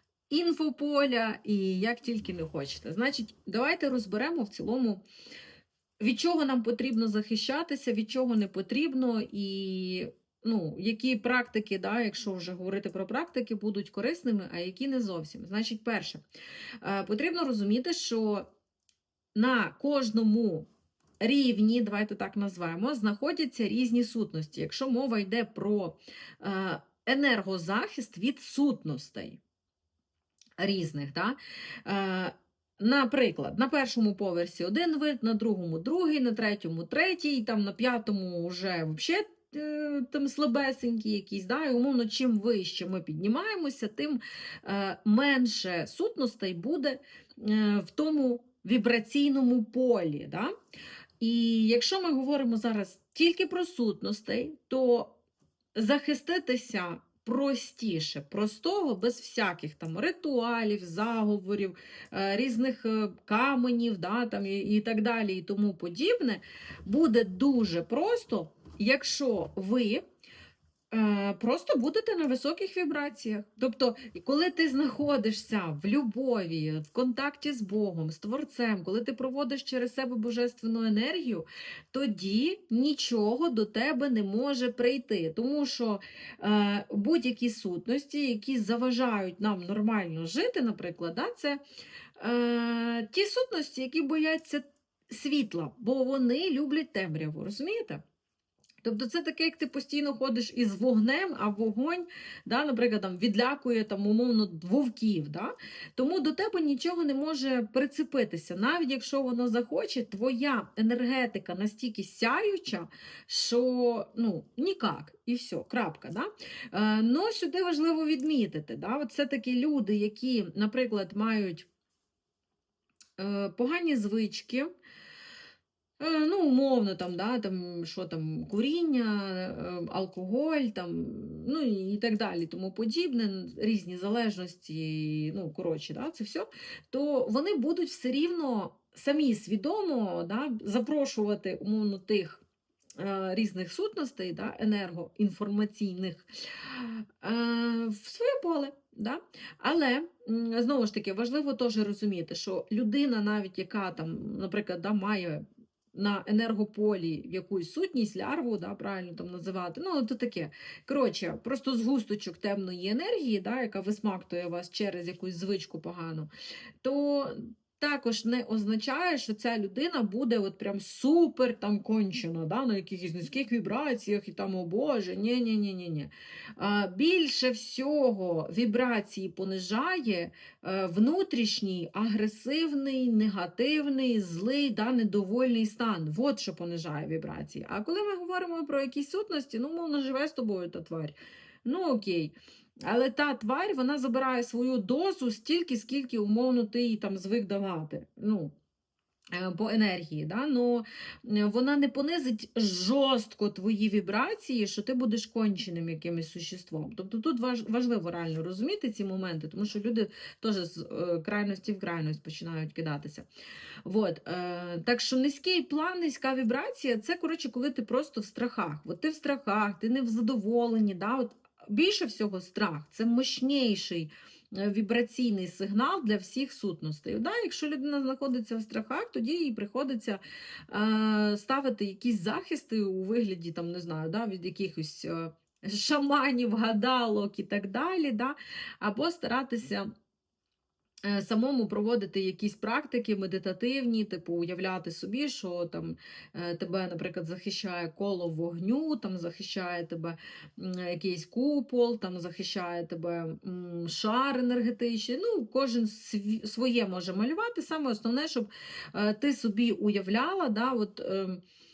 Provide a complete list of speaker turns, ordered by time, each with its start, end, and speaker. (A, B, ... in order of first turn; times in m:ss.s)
0:00.3-0:05.0 A
0:06.0-0:16.2 A
0:16.8-0:18.4 A
0:19.3-0:20.7 A
0:21.2-0:29.4 A
0:30.6-0:50.5 A
0:51.2-0:55.1 A
0:55.8-1:10.0 A
1:10.9-1:31.6 A
1:32.2-1:38.0 A
1:38.8-2:01.7 A
2:03.2-2:04.7 A
2:06.0-2:22.4 A
2:23.0-2:35.4 A
2:35.9-2:46.3 A
2:46.8-3:18.5 A
3:19.3-3:33.2 A
3:33.8-3:59.9 A
4:01.0-4:21.4 A